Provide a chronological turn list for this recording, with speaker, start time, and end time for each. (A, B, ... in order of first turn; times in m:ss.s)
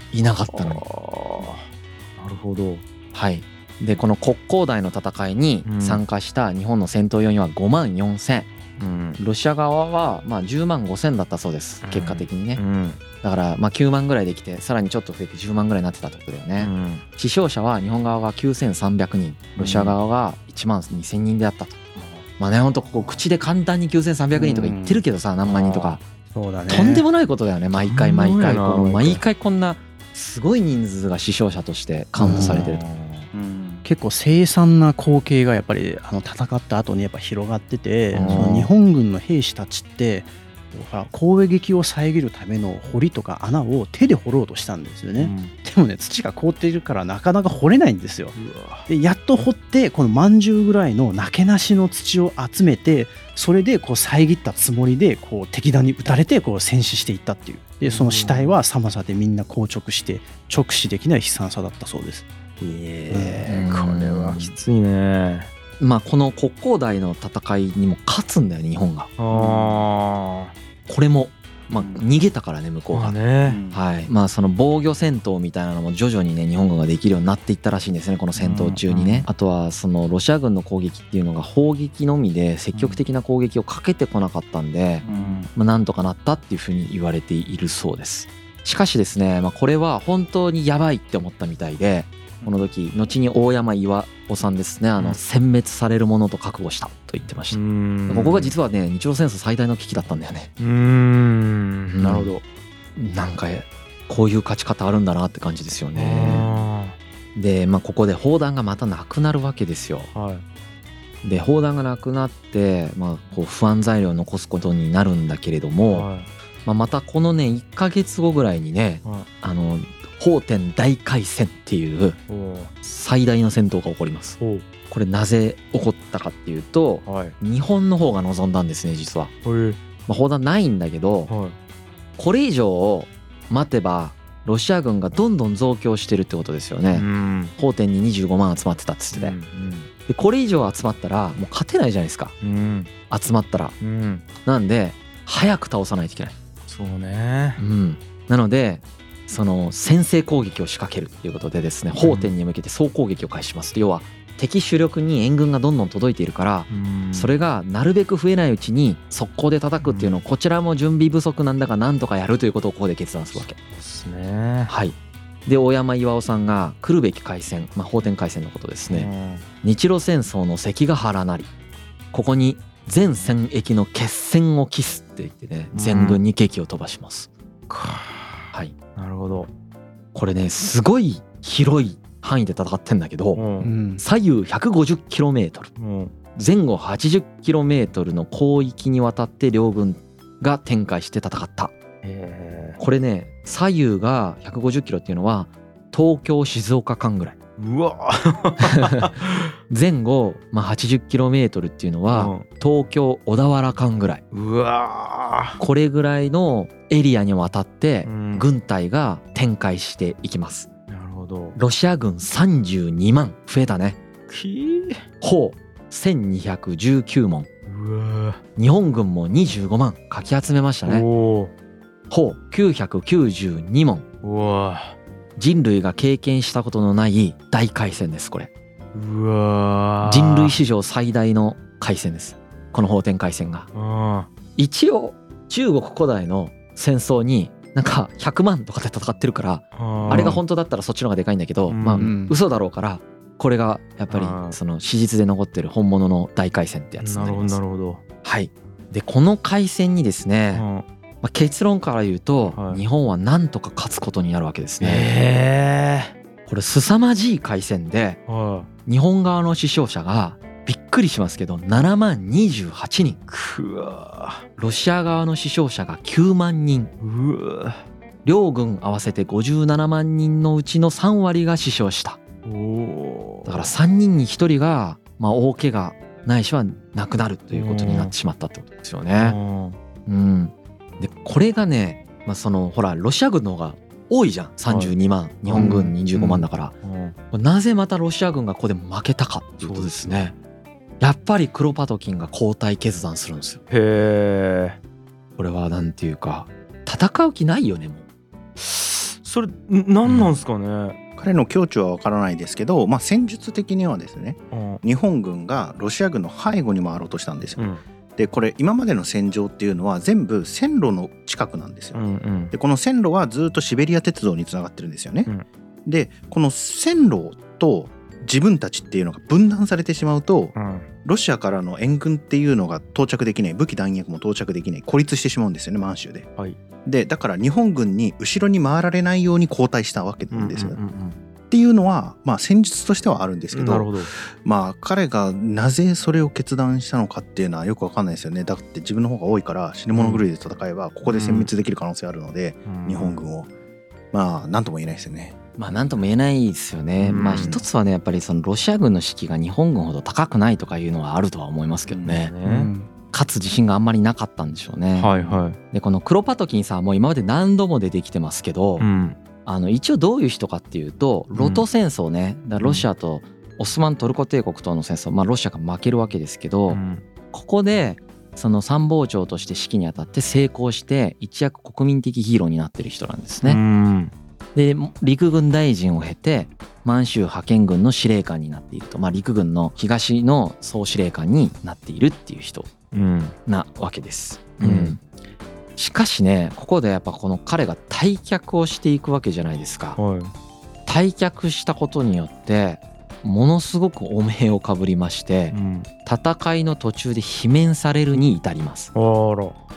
0:00.1-0:00.8 A
0:00.5-0:01.7 B
0:02.2-0:02.8 B
0:03.1-0:08.5 A
0:05.6-0:06.0 B
0:08.8-0:09.2 B
0:09.2-0:12.6 A
0:11.8-0:13.0 B
0:13.2-0:21.8 A
0:16.6-0:17.0 B
0:19.6-0:20.0 B
0:22.0-0:22.3 B
0:22.4-0:26.0 A
0:24.3-0:25.0 C
0:25.4-0:26.0 B
0:26.3-0:27.1 C
0:26.7-0:32.8 A
0:27.7-0:29.2 B
0:32.2-0:32.7 C
0:32.3-0:33.3 B
0:33.3-0:33.9 D
0:33.8-1:02.3 C
0:38.1-0:38.7 A
0:38.2-0:38.7 B
0:45.2-0:45.5 B
0:48.4-0:48.9 B
0:57.8-0:58.6 B
1:02.6-1:05.5 B
1:03.1-1:03.5 C
1:03.5-1:04.5 A
1:05.8-1:09.1 A
1:09.2-1:10.5 B
1:09.3-1:09.8 D
1:10.9-1:13.2 A
1:11.7-1:12.0 D
1:12.9-1:13.6 B
1:13.5-1:13.8 D
1:13.7-1:40.5 A
1:18.4-1:19.3 B
1:22.7-1:23.0 B
1:25.0-1:25.5 D
1:25.0-1:25.5 B
1:32.4-1:32.7 D
1:37.5-1:38.6 B
1:40.6-1:42.4 B
1:41.9-1:42.4 A
1:43.0-1:46.7 A
1:45.9-1:47.0 B
1:47.4-1:50.1 A
1:50.1-1:50.4 B
1:51.2-1:56.1 A
1:55.9-1:56.3 B
1:56.6-2:02.2 A
2:02.3-2:02.7 B
2:02.8-2:09.3 A
2:04.4-2:04.7 B
2:07.1-2:07.4 B
2:09.4-2:09.8 B
2:10.1-2:11.3 A
2:11.3-2:11.6 B
2:12.2-2:19.4 A
2:16.9-2:17.5 B
2:19.1-2:19.9 B
2:20.1-2:22.3 A
2:22.4-2:22.9 B
2:23.1-2:23.8 A
2:23.8-2:24.3 B
2:24.4-2:26.4 A
2:26.7-2:27.6 B
2:27.6-2:43.6 A
2:32.0-2:32.3 B
2:36.7-2:37.3 B
2:39.8-2:40.2 B
2:43.4-2:44.7 B
2:44.7-2:49.1 A
2:48.9-2:49.5 B
2:49.6-2:51.5 A
2:52.1-2:57.3 A
2:55.7-2:56.2 B
2:57.7-2:59.5 B
3:00.1-3:03.4 A
3:03.4-3:03.7 B
3:03.6-3:04.0 C
3:04.0-3:05.7 A
3:05.8-3:06.1 B
3:06.3-3:11.7 A
3:12.0-3:12.8 B
3:12.8-3:17.4 A
3:17.6-3:19.4 B
3:19.7-3:24.2 A
3:22.1-3:22.4 B
3:24.3-3:25.6 B
3:25.6-3:30.7 A
3:28.0-3:28.5 B
3:30.9-3:31.6 B
3:31.6-3:34.0 A
3:34.3-3:35.0 B
3:35.2-3:37.5 A
3:37.7-3:38.4 B
3:38.6-3:41.1 A
3:40.8-3:41.5 B
3:42.1-3:44.0 A
3:44.2-3:45.0 B
3:45.4-3:48.5 A
3:48.9-3:50.6 B
3:50.0-3:53.7 A
3:53.7-3:54.3 B
3:54.6-4:07.6 A
3:59.8-4:00.4 B
4:00.1-4:00.4 C
4:01.7-4:02.1 B
4:02.0-4:02.4 C
4:04.1-4:04.6 B
4:07.0-4:08.0 B
4:08.2-4:10.6 A
4:10.5-4:10.8 B
4:11.2-4:15.1 A
4:12.5-4:12.8 B
4:14.8-4:16.1 B
4:16.5-4:18.2 A
4:18.3-4:18.7 B
4:18.9-4:23.2 A
4:23.3-4:24.4 B
4:24.6-4:26.9 A
4:27.0-4:27.8 B
4:28.2-4:32.2 A
4:32.4-4:33.7 B
4:33.5-4:39.4 A
4:37.5-4:38.1 B
4:39.2-4:39.8 B
4:40.1-4:46.8 A
4:44.7-4:44.9 B
4:45.5-4:47.2 B
4:47.3-4:50.3 A
4:49.6-4:50.3 B
4:51.0-4:53.6 A
4:53.7-4:54.8 B
4:55.4-4:58.0 A
4:58.6-5:01.0 B
5:00.0-5:00.3 A
5:01.2-5:15.3 D
5:04.5-5:04.8 B
5:07.6-5:07.8 B
5:11.9-5:12.5 B
5:15.9-5:26.3 D
5:20.5-5:20.9 B
5:26.8-5:30.8 D
5:30.3-5:31.2 B
5:31.5-5:43.5 D
5:33.5-5:34.1 B
5:39.9-5:40.3 B
5:41.1-5:41.5 B
5:42.7-5:43.2 B
5:44.1-5:45.4 D
5:45.6-5:52.3 A
5:47.0-5:47.6 B
5:51.9-5:52.2 D
5:52.0-5:52.7 B
5:52.4-5:52.9 C
5:53.1-5:55.1 A
5:55.0-5:55.6 B
5:55.7-5:58.9 A
5:58.8-5:59.2 B
5:59.5-6:06.8 A
6:01.3-6:01.7 B
6:02.6-6:02.9 B
6:06.7-6:07.0 B
6:07.3-6:13.6 A
6:13.4-6:14.1 B
6:14.6-6:22.7 A
6:22.9-6:23.4 B
6:23.5-6:25.0 A
6:24.6-6:25.0 B
6:25.8-6:30.0 A
6:30.0-6:30.3 B
6:30.9-6:38.9 A
6:35.5-6:35.9 B
6:38.9-6:39.6 B